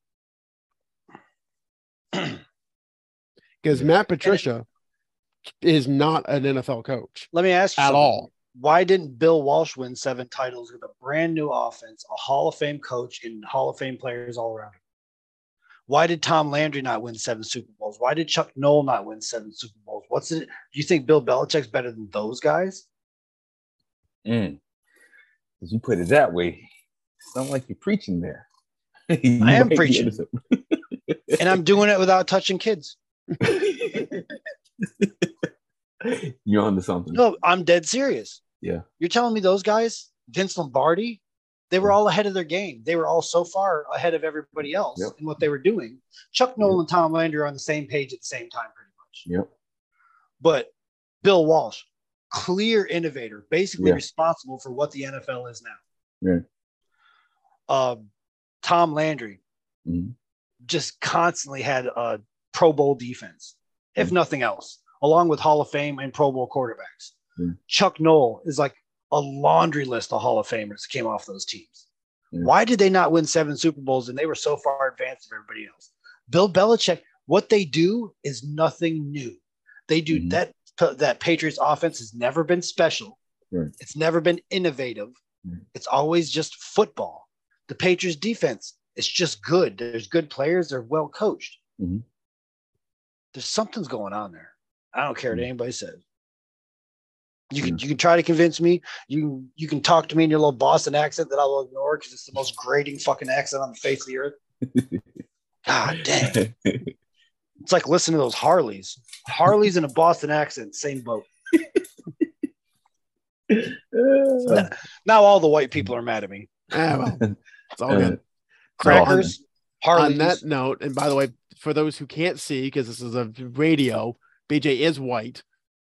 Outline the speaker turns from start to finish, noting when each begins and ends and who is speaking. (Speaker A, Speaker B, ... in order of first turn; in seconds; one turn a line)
Speaker A: 3.6-4.6
Speaker A: 5.6-8.3
Speaker B: 7.3-14.8
Speaker B: 15.9-22.8
Speaker C: 24.2-24.6
Speaker C: 25.6-26.7
Speaker C: 27.3-28.4
Speaker C: 29.1-31.6
Speaker B: 29.4-30.2
Speaker B: 31.4-32.9
Speaker C: 33.4-34.3
Speaker C: 34.8-35.3
Speaker C: 36.0-37.2
Speaker B: 37.1-38.4
Speaker B: 39.0-49.2
Speaker B: 50.4-50.7
Speaker B: 51.2-55.8
Speaker B: 57.7-58.0
Speaker B: 58.6-59.4
Speaker C: 59.9-60.1
Speaker B: 60.7-67.1
Speaker B: 67.7-71.8
Speaker B: 72.4-83.2
Speaker C: 80.1-80.4
Speaker B: 83.8-85.2
Speaker B: 85.7-91.6
Speaker C: 91.8-92.0
Speaker B: 93.3-96.0
Speaker B: 97.5-104.4
Speaker C: 104.7-105.0
Speaker B: 105.7-106.4
Speaker C: 106.1-106.9
Speaker B: 107.6-111.3
Speaker C: 113.5-114.7
Speaker B: 114.5-116.5
Speaker A: 116.7-117.2
Speaker A: 117.7-118.2
Speaker C: 117.9-118.2
Speaker B: 118.8-120.4
Speaker C: 118.8-119.3
Speaker A: 118.8-119.3
Speaker A: 119.9-125.4